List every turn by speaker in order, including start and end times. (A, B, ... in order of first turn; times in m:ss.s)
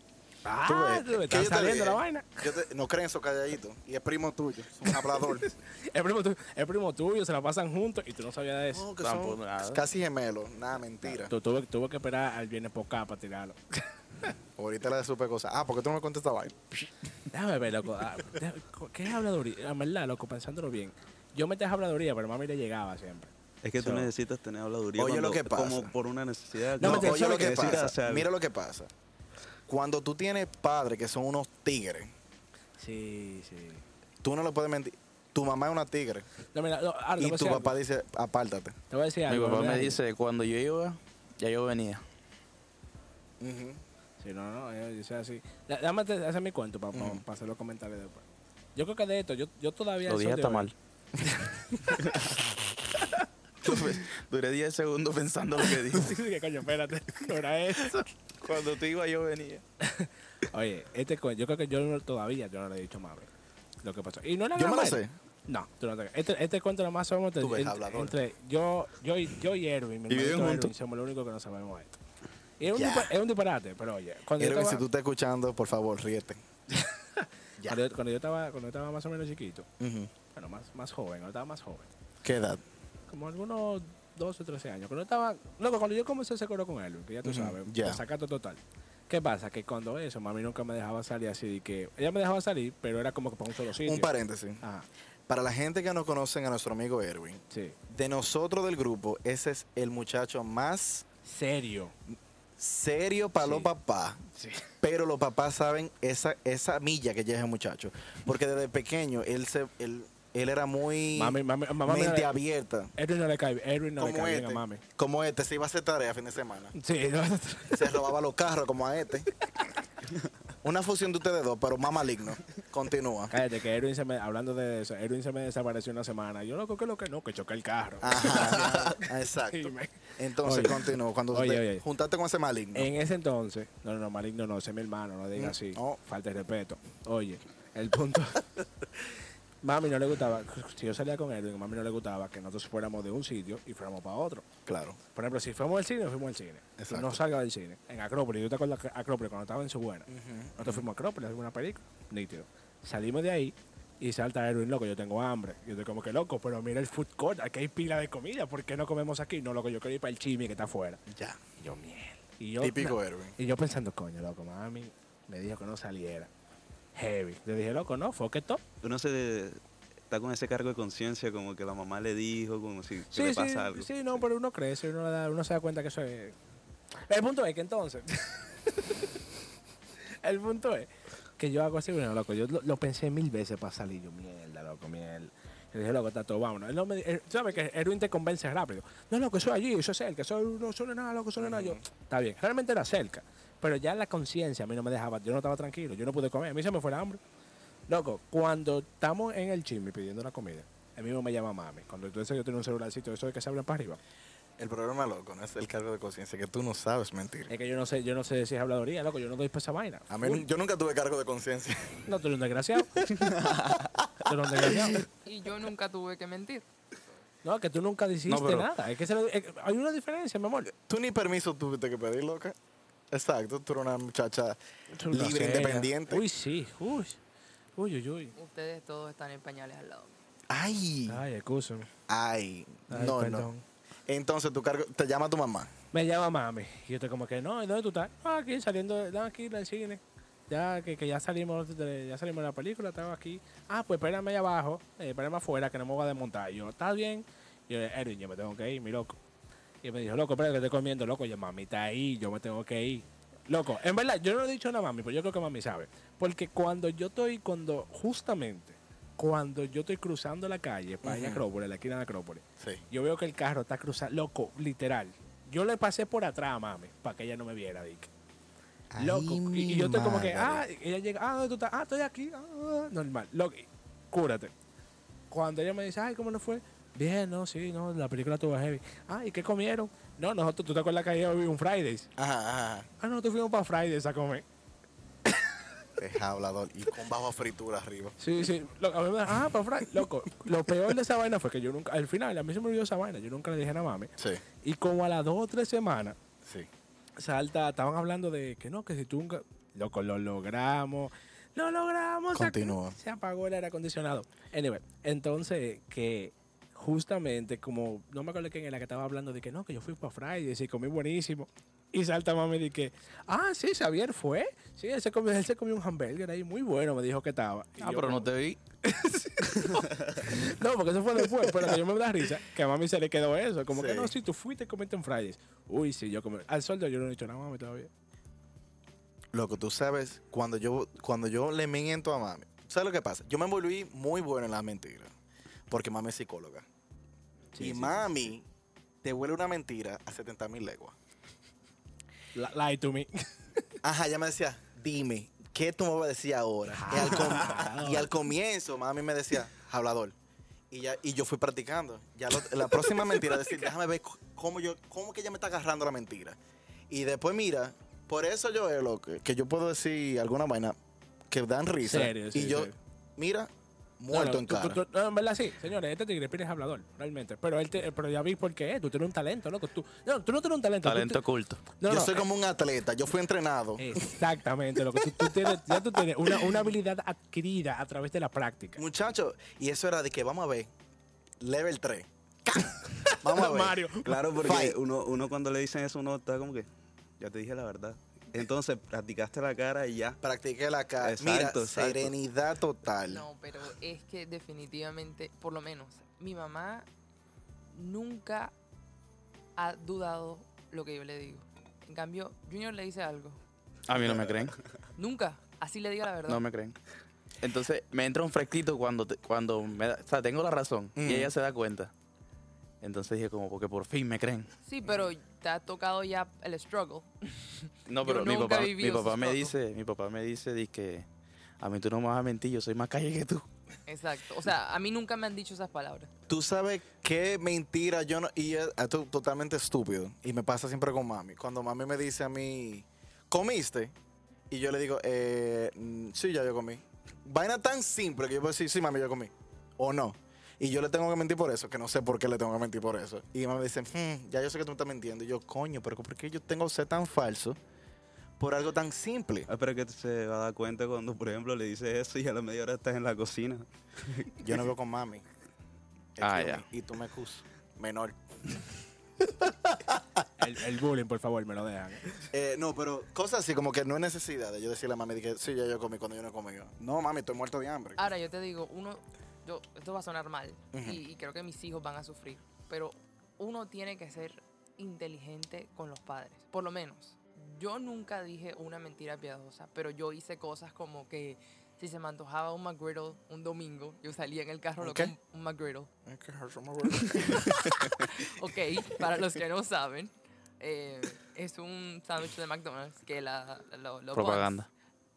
0:00.4-0:02.4 A
0:00.6-0:05.4 B
0:04.8-0:08.9 A
0:08.7-0:11.3 B
0:09.0-0:09.8 C
0:11.0-0:14.3 A
0:14.6-0:16.9 B
0:17.3-0:23.3 A
0:23.6-0:28.3 D
0:23.8-0:24.0 C
0:24.9-0:25.9 B
0:26.8-0:27.9 A
0:26.8-0:28.9 B
0:29.7-0:32.1 B
0:32.8-0:33.8 A
0:34.2-0:36.2 B
0:36.5-0:37.7 A
0:37.2-0:38.8 B
0:38.9-0:40.0 A
0:39.3-0:42.0 C
0:43.4-0:43.8 B
0:44.2-0:48.2 A
0:46.9-0:47.2 B
0:48.7-0:50.7 A
0:50.1-0:50.7 C
0:51.3-0:51.9 A
0:53.6-0:56.2 C
0:55.9-0:58.1 A
0:57.9-0:59.6 C
0:59.8-1:03.3 A
1:03.8-1:12.0 A
1:04.5-1:05.1 B
1:07.4-1:08.2 B
1:10.1-1:10.7 C
1:12.6-1:14.8 A
1:12.7-1:13.1 B
1:14.4-1:16.4 B
1:16.7-1:19.7 A
1:19.8-1:20.1 B
1:20.3-1:21.9 A
1:22.2-1:22.6 B
1:23.1-1:34.1 A
1:27.2-1:28.0 B
1:33.7-1:34.6 B
1:34.6-1:34.9 A
1:35.3-1:41.0 B
1:37.5-1:37.8 A
1:41.2-1:41.9 A
1:42.6-1:44.2 B
1:43.4-1:43.7 A
1:44.3-1:44.7 A
1:44.8-1:52.9 B
1:51.1-1:52.3 A
1:53.0-1:54.8 A
1:54.0-1:56.7 B
1:56.7-1:57.9 A
1:57.7-1:59.3 B
2:00.6-2:03.3 B
2:03.3-2:11.8 A
2:08.0-2:12.9 B
2:12.7-2:18.6 A
2:15.3-2:16.0 B
2:19.6-2:24.4 A
2:24.6-2:25.0 B
2:25.1-2:30.1 A
2:26.8-2:27.2 B
2:30.1-2:30.9 B
2:30.6-2:41.0 A
2:41.1-2:41.4 B
2:41.6-2:46.3 A
2:42.6-2:43.4 B
2:46.9-2:48.6 A
2:48.8-2:54.2 D
2:53.1-2:56.4 A
2:57.1-2:59.1 A
3:00.2-3:17.2 A
3:11.4-3:11.8 B
3:17.9-3:24.0 A
3:24.6-3:27.5 B
3:27.5-3:30.4 A
3:30.1-3:32.0 B
3:32.0-3:32.9 A
3:33.0-3:35.0 B
3:34.2-3:35.0 A
3:35.2-3:36.6 E
3:37.4-3:40.7 A
3:38.3-3:38.7 C
3:40.7-3:42.6 B
3:43.1-3:44.6 B
3:44.9-3:47.2 A
3:45.1-3:46.2 B
3:47.8-3:48.3 A
3:48.4-3:50.2 E
3:50.5-3:51.2 B
3:51.1-3:51.9 A
3:52.1-3:53.5 B
3:52.9-3:53.6 A
3:54.1-3:55.7 B
3:55.9-4:09.2 A
4:09.8-4:28.1 A
4:21.0-4:21.4 B
4:28.9-4:30.6 B
4:29.0-4:34.5 A
4:35.3-4:42.1 A
4:42.2-4:42.9 B
4:43.0-4:44.4 A
4:46.0-4:48.2 B
4:48.2-4:56.2 A
4:56.4-4:56.7 B
4:57.2-5:18.3 A
5:02.3-5:03.0 B
5:17.8-5:18.6 C
5:18.8-5:27.9 A
5:21.4-5:21.8 B
5:23.7-5:24.1 B
5:29.3-5:35.1 B
5:35.7-5:36.6 B
5:37.5-5:38.1 A
5:37.6-5:38.4 B
5:39.0-5:40.9 B
5:42.3-5:43.6 A
5:43.8-5:50.1 B
5:46.7-5:48.1 A
5:50.7-5:56.4 B
5:56.9-6:00.8 B
6:01.3-6:04.8 B
6:01.8-6:02.8 A
6:04.1-6:11.2 A
6:10.8-6:11.6 C
6:11.8-6:12.2 A
6:11.8-6:14.2 B
6:13.8-6:18.8 A
6:15.1-6:16.6 B
6:18.8-6:20.7 B
6:21.4-6:23.8 B
6:22.9-6:24.3 A
6:24.0-6:26.7 D
6:24.4-6:24.8 B
6:27.2-6:30.2 D
6:30.2-6:33.2 B
6:31.0-6:32.1 D
6:33.1-6:36.9 E
6:37.7-6:38.5 E
6:39.6-6:43.4 E
6:43.9-6:44.6 C
6:45.0-6:46.4 E
6:46.3-6:46.8 C
6:47.4-6:51.9 C
6:51.0-6:51.3 B
6:52.8-6:54.5 C
6:54.6-6:59.5 E
6:57.9-7:01.0 C
7:01.6-7:03.4 C
7:03.9-7:06.1 E
7:06.3-7:13.9 B
7:14.5-7:27.6 B
7:28.4-7:29.5 B
7:29.5-7:34.3 D
7:34.4-7:35.2 B
7:36.2-7:38.5 B
7:36.2-7:36.6 C
7:39.4-7:40.0 B
7:40.4-7:42.2 A
7:42.3-7:48.0 B
7:48.0-8:05.9 E
7:50.7-7:51.0 B
8:04.8-8:05.1 B
8:06.0-8:08.2 B
8:07.2-8:14.6 E
8:14.1-8:14.7 C